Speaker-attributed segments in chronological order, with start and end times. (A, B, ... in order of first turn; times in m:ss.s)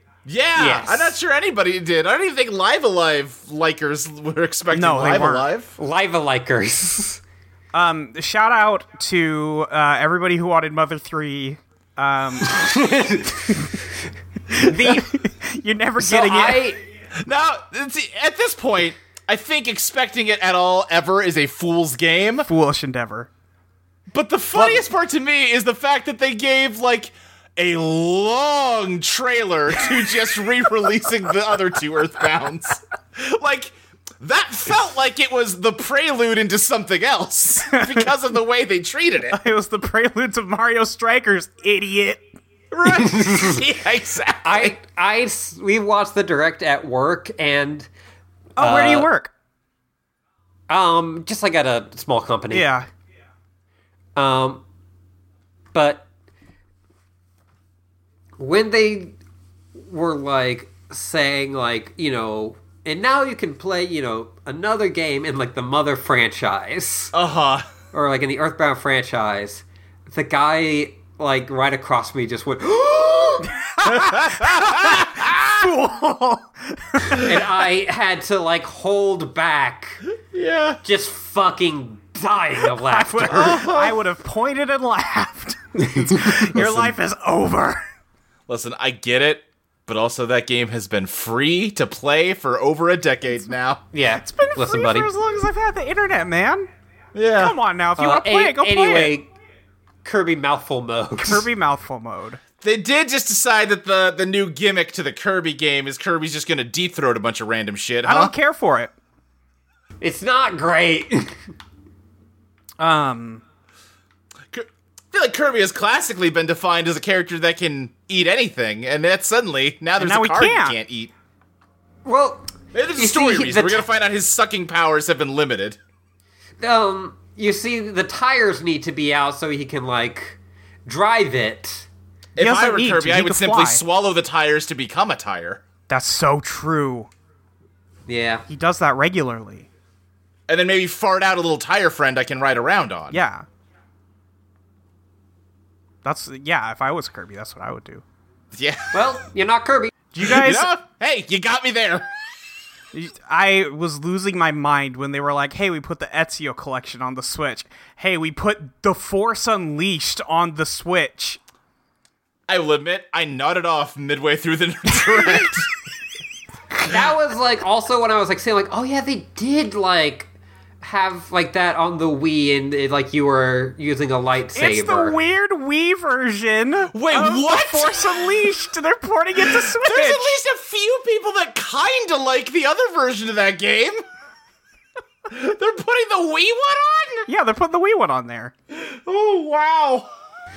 0:00.2-0:05.7 A
0:00.6-0:01.2 B
0:04.7-0:05.4 C
0:05.8-0:07.2 B
0:07.7-0:12.8 C
0:12.4-0:13.8 B
0:14.5-0:16.7 C
0:14.5-0:15.1 B
0:16.0-0:16.8 B
0:17.2-0:22.5 A
0:22.4-0:23.3 C
0:24.1-0:39.4 A
0:37.7-0:38.1 C
0:39.3-0:42.2 C
0:42.7-0:44.7 A
0:42.8-0:43.6 B
0:44.4-0:47.9 B
0:48.6-0:49.3 C
0:48.6-0:49.1 B
0:50.7-0:52.7 B
0:52.5-0:52.9 C
0:54.2-0:54.6 B
0:55.7-0:56.1 B
0:58.4-0:59.2 B
0:59.8-1:07.1 B
1:07.1-1:07.7 A
1:07.9-1:13.5 B
1:13.5-1:17.3 C
1:13.8-1:15.7 A
1:17.2-1:20.0 B
1:20.3-1:20.8 A
1:20.8-1:23.6 B
1:22.7-1:27.8 C
1:23.3-1:24.0 A
1:25.9-1:26.5 B
1:26.5-1:26.9 A
1:28.5-1:33.8 A
1:33.9-1:35.1 B
1:34.2-1:36.7 C
1:37.1-1:37.6 A
1:37.4-1:39.1 C
1:38.0-1:39.3 B
1:40.0-1:41.4 B
1:41.2-1:42.4 C
1:42.6-1:48.3 A
1:48.0-1:48.9 C
1:50.0-1:51.4 B
1:52.8-1:53.4 C
1:54.5-2:01.1 A
2:00.0-2:00.8 C
2:02.0-2:03.8 B
2:02.7-2:05.8 A
2:06.6-2:11.9 B
2:12.4-2:15.6 A
2:12.4-2:13.8 C
2:15.9-2:17.1 C
2:18.1-2:18.4 B
2:18.5-2:19.7 C
2:20.5-2:23.2 A
2:23.1-2:23.4 C
2:26.0-2:28.0 C
2:28.5-2:29.0 A
2:28.9-2:29.9 B
2:30.1-2:30.7 C
2:30.2-2:32.1 A
2:32.9-2:41.4 C
2:42.5-2:45.7 A
2:46.8-2:50.3 B
2:50.8-2:55.2 B
2:54.5-3:00.3 C
2:56.9-2:58.5 A
2:59.4-3:04.0 A
3:05.3-3:07.3 A
3:07.3-3:08.5 C
3:08.7-3:10.1 A